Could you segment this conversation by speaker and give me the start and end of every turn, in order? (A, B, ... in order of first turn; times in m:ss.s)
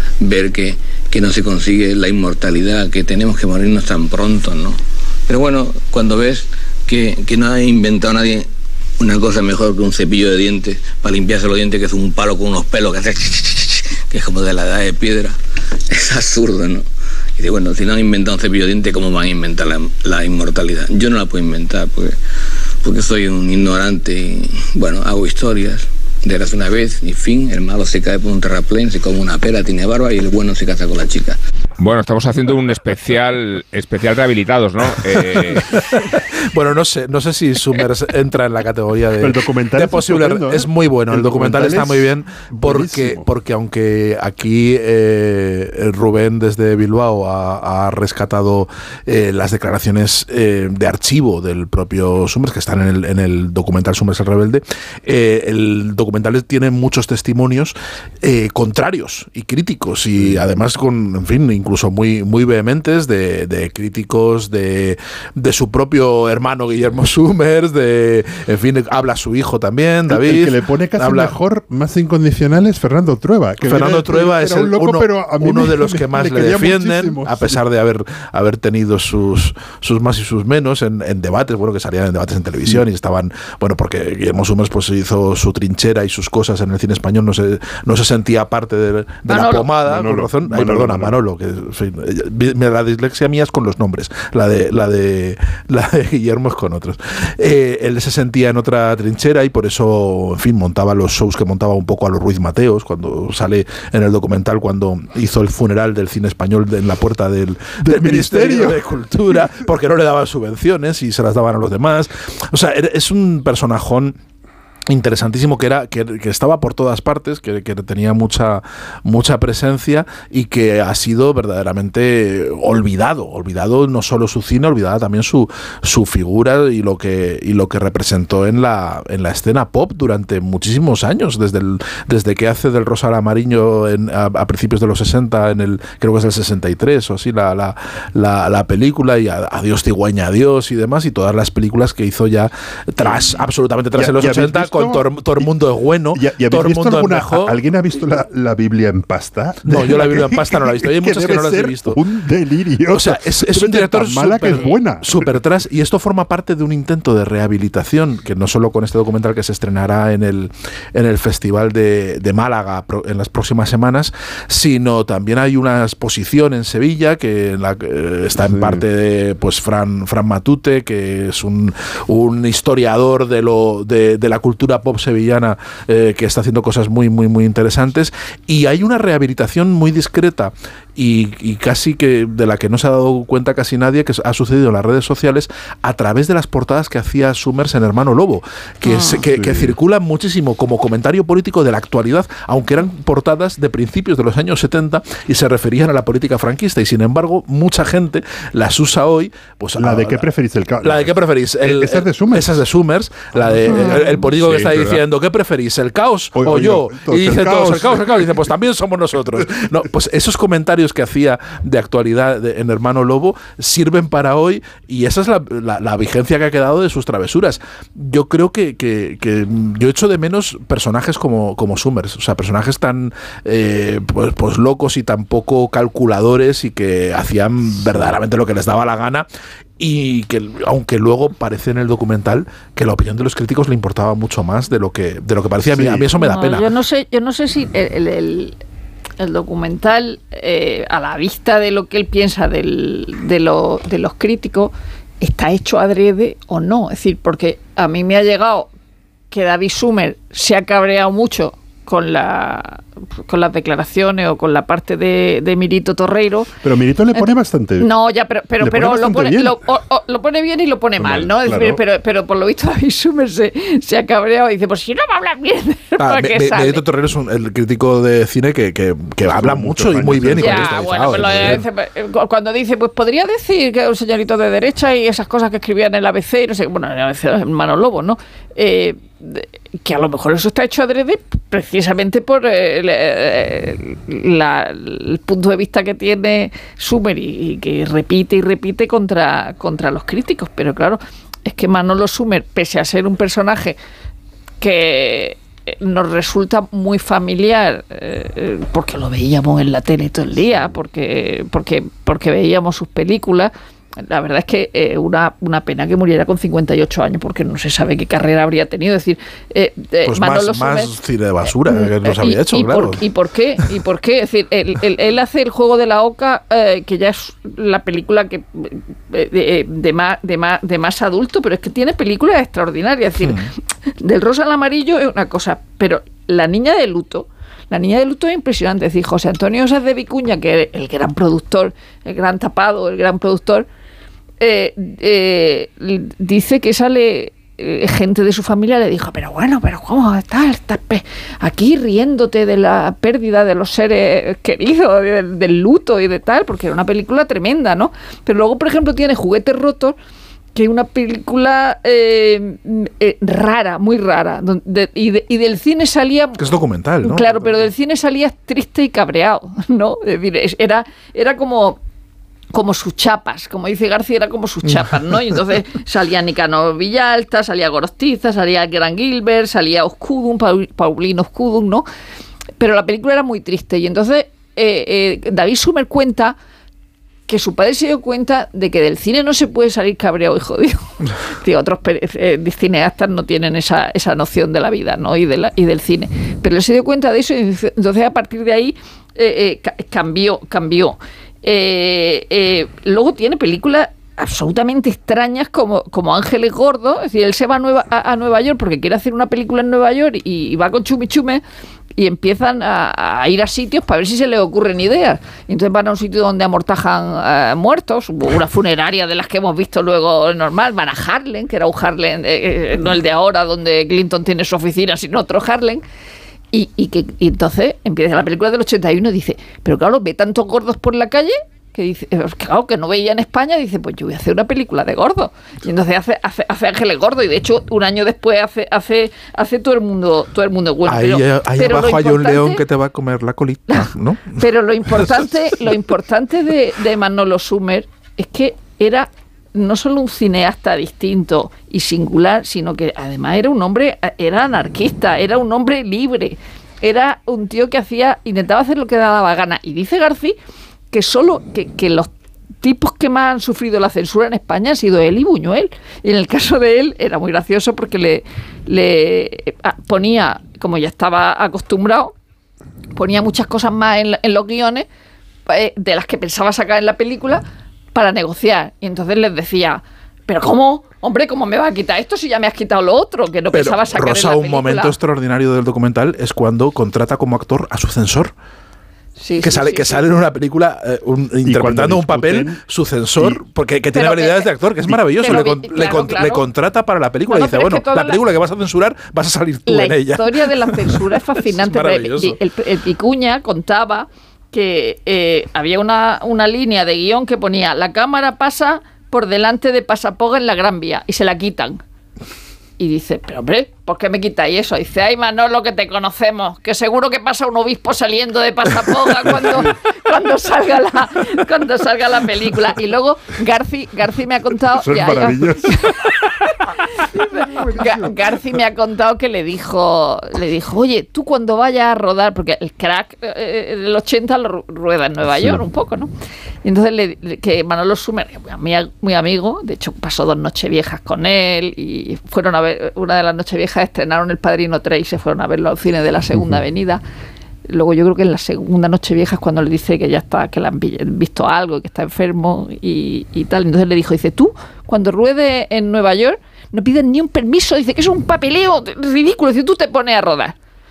0:00.2-0:15.4 A
0:15.9-0:16.8 A
0:17.4-0:22.2 A
0:22.8-0:31.4 A
0:31.8-0:35.8 B
0:35.1-1:11.4 C
0:39.2-0:43.2 D
1:10.1-1:17.6 D
1:13.6-1:54.2 C
1:29.3-1:29.6 E
1:29.8-1:31.1 D
1:47.8-1:48.8 D
1:54.9-2:27.6 C
2:23.0-2:23.4 D
2:24.0-2:25.5 D
2:26.1-2:35.4 D
2:29.6-2:32.0 C
2:32.8-3:20.2 C
2:48.4-2:48.8 D
3:08.8-3:09.3 E
3:09.3-3:09.8 D
3:19.8-3:22.6 D
3:20.8-3:49.3 C
3:23.4-3:24.0 D
3:23.7-3:24.0 E
3:24.2-3:25.0 B
3:26.4-3:28.5 D
3:49.8-3:56.7 C
3:55.7-3:56.1 D
3:56.2-3:58.6 E
3:59.2-4:08.7 E
4:09.3-4:16.5 E
4:16.6-4:17.9 D
4:17.1-4:26.8 E
4:18.6-4:19.6 D
4:21.0-4:21.8 D
4:26.0-4:31.6 C
4:29.2-4:31.6 D
4:30.4-4:53.8 E
4:54.6-5:10.9 E
5:10.0-5:13.0 C
5:11.6-5:23.4 E
5:23.2-5:23.5 C
5:24.0-5:33.7 E
5:34.4-5:50.0 E
5:50.5-5:56.4 E
5:56.4-5:57.5 C
5:57.0-6:01.8 E
6:02.5-6:11.8 E
6:12.6-6:16.4 E
6:17.3-6:41.4 E
6:42.0-6:55.8 E
6:56.5-7:12.6 E
7:10.8-7:14.4 C
7:14.4-7:30.4 E
7:30.9-7:42.1 E
7:42.9-7:44.9 E
7:45.5-7:47.4 E
7:47.9-7:54.9 E
7:53.5-7:58.3 C
7:59.2-8:00.0 E
7:59.4-8:12.4 C
8:01.4-8:02.6 D
8:03.9-8:04.5 E
8:05.1-8:06.4 E
8:07.3-8:08.2 E
8:09.7-8:21.8 E
8:22.8-8:36.0 E
8:29.2-8:29.7 D
8:34.7-8:36.2 D
8:37.0-8:46.1 E
8:37.0-8:38.4 D
8:45.3-8:45.6 D
8:46.6-8:57.0 E
8:57.7-9:10.6 E